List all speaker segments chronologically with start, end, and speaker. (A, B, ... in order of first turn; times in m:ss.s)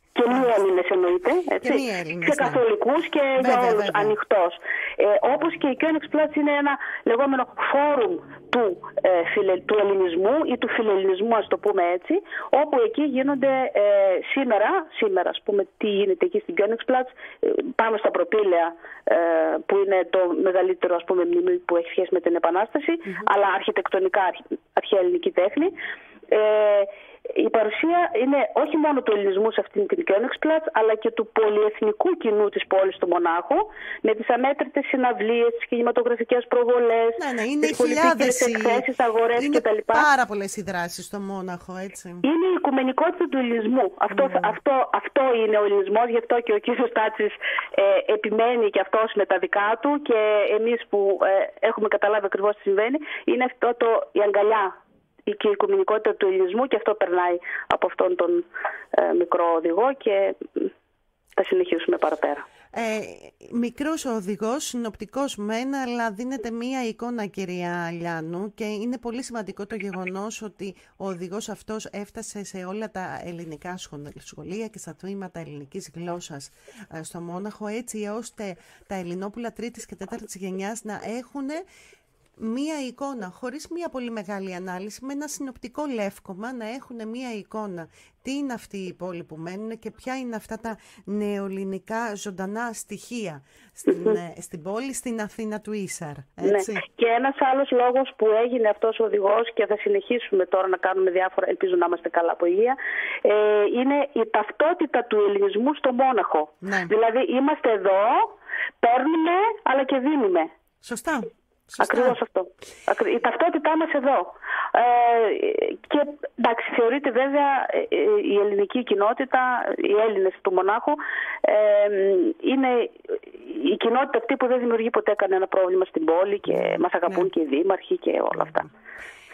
0:00.2-0:25.7 A
0:01.6-0:02.6 B
0:03.4-0:04.1 B
0:26.3-0:40.1 A
0:37.2-0:38.8 B
0:39.4-0:42.2 B
0:42.2-0:54.7 A
0:44.1-0:44.5 B
0:55.3-1:00.7 A
1:01.4-1:02.4 A
1:02.7-1:21.6 B
1:22.4-1:36.8 B
1:33.9-1:34.2 A
1:36.4-1:50.5 A
1:46.6-1:46.9 B
1:50.8-1:52.2 B
1:51.8-2:08.7 A
2:06.5-2:07.3 B
2:08.3-2:08.7 B